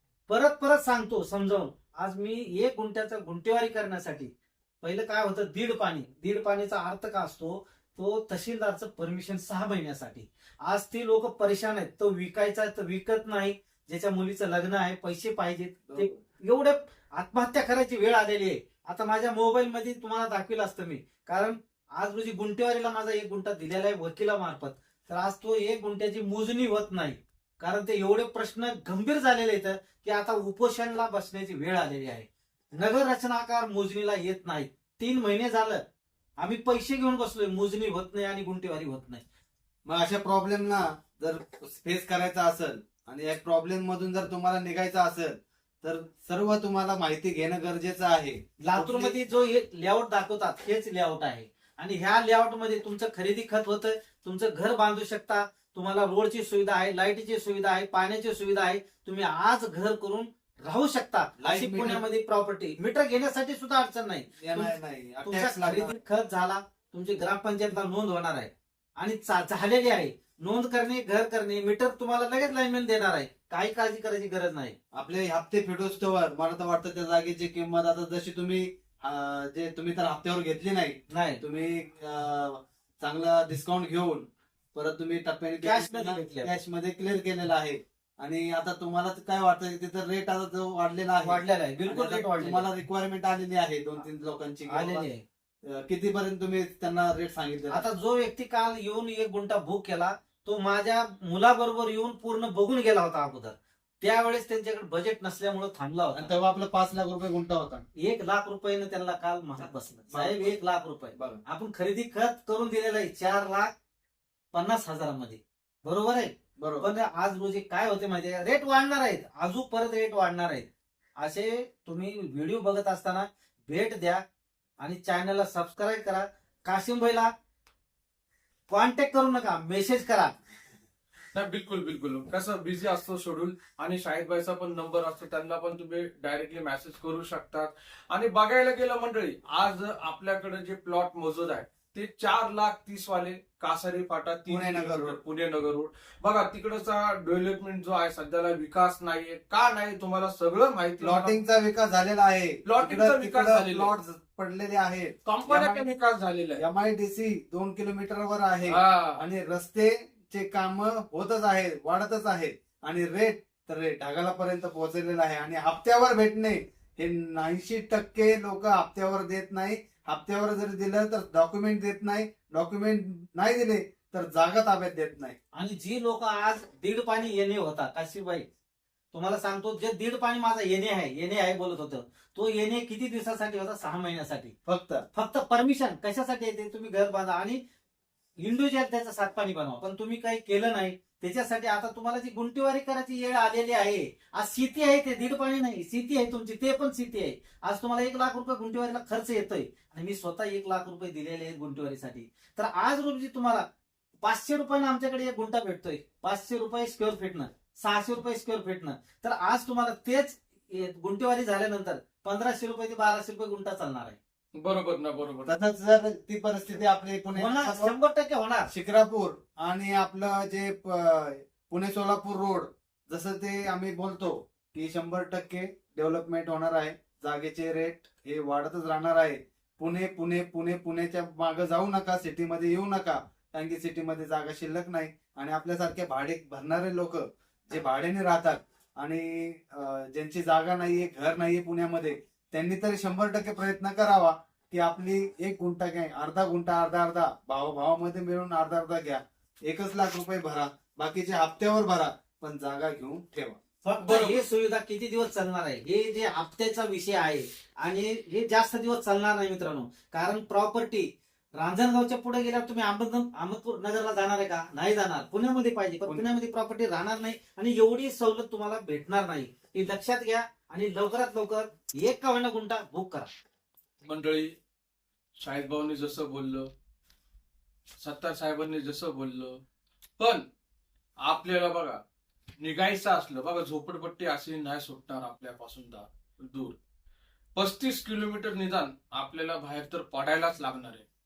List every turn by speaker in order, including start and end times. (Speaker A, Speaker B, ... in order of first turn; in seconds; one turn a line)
Speaker A: 0.3-35.8
Speaker B: 15.9-16.1
Speaker A: 36.4-39.2
Speaker C: 39.9-49.1
Speaker A: 48.6-74.8
Speaker C: 61.4-62.0
Speaker C: 64.4-66.0
Speaker C: 74.9-95.1
Speaker A: 81.1-81.4
Speaker A: 85.6-86.5
Speaker A: 91.2-92.6
Speaker A: 94.7-95.2
Speaker C: 95.6-97.8
Speaker A: 97.7-106.3
Speaker C: 106.1-107.8
Speaker A: 108.0-113.7
Speaker C: 110.1-110.6
Speaker C: 111.1-111.4
Speaker A: 114.5-124.2
Speaker C: 116.6-116.8
Speaker A: 124.8-127.3
Speaker A: 128.7-130.3
Speaker B: 131.3-151.3
Speaker C: 144.5-145.2
Speaker C: 151.0-155.9
Speaker B: 152.6-153.9
Speaker B: 155.2-156.6
Speaker C: 156.6-175.3
Speaker B: 158.6-159.2
Speaker A: 175.5-178.4
Speaker A: 179.1-184.5
Speaker C: 184.7-185.1
Speaker A: 185.1-187.6
Speaker A: 188.4-203.6
Speaker A: 204.2-214.2
Speaker B: 214.5-215.6
Speaker C: 215.4-217.9
Speaker A: 217.3-218.7
Speaker C: 218.7-253.6
Speaker A: 253.8-273.3
Speaker B: 254.0-254.4
Speaker B: 274.0-274.6
Speaker B: 275.4-276.7
Speaker B: 278.0-279.6
Speaker B: 280.2-280.4
Speaker B: 281.2-282.0
Speaker B: 282.6-286.8
Speaker B: 287.5-291.1